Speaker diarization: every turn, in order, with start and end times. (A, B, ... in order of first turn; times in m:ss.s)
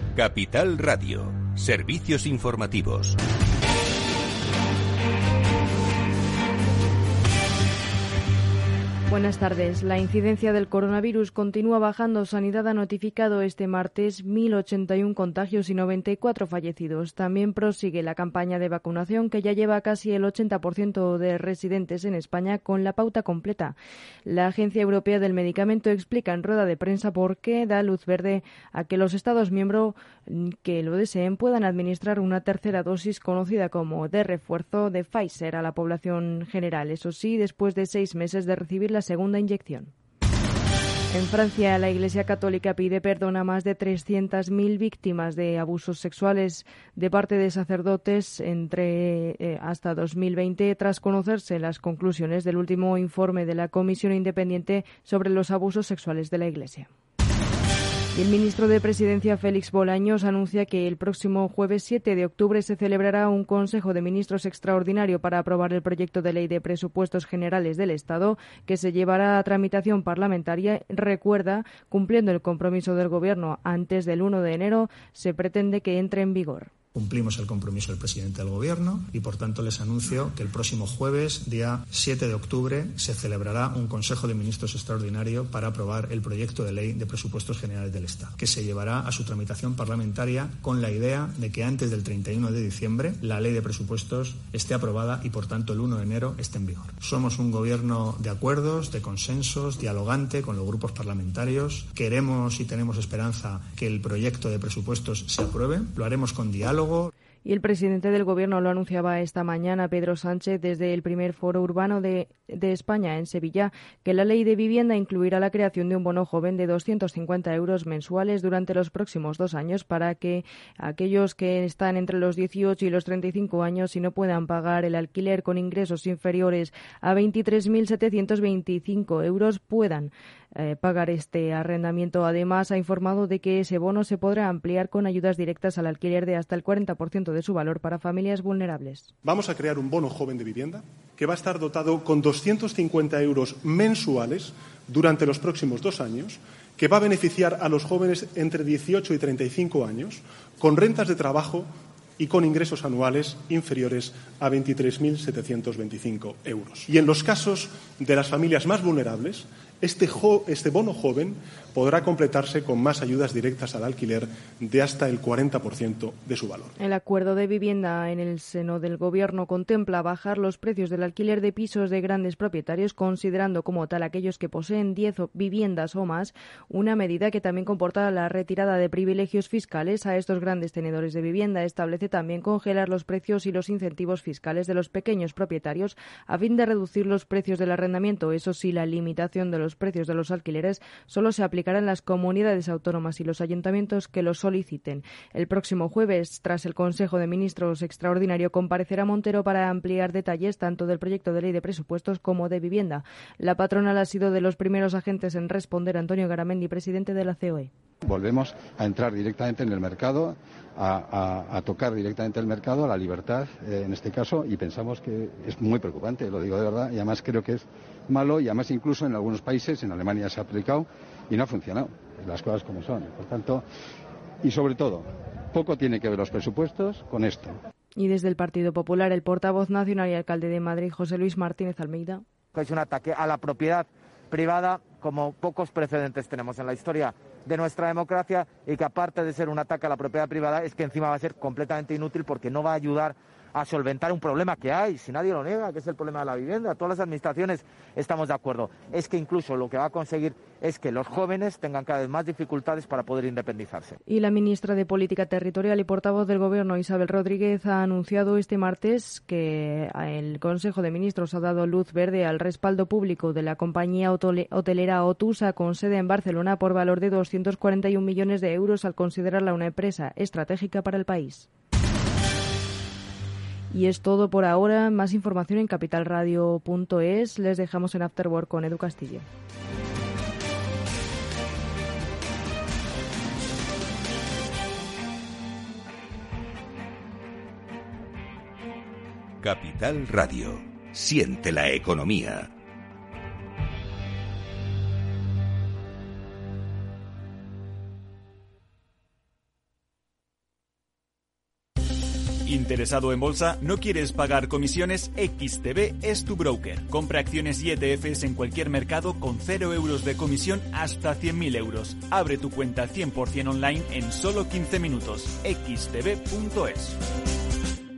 0:00.1-0:03.2 A
0:09.1-0:23.7 B
0:24.2-0:39.9 B
0:41.1-0:56.9 B
0:58.1-1:16.7 B
1:16.9-1:47.1 C
1:47.4-2:19.1 B
2:19.2-2:46.8 D
2:46.8-3:27.7 B
3:28.0-3:43.6 E
3:44.4-3:47.6 E
3:48.0-3:52.2 B
3:52.5-4:14.0 F
4:14.0-4:31.5 B
4:33.7-4:39.3 B
4:49.4-4:52.5 A
5:02.4-5:17.0 G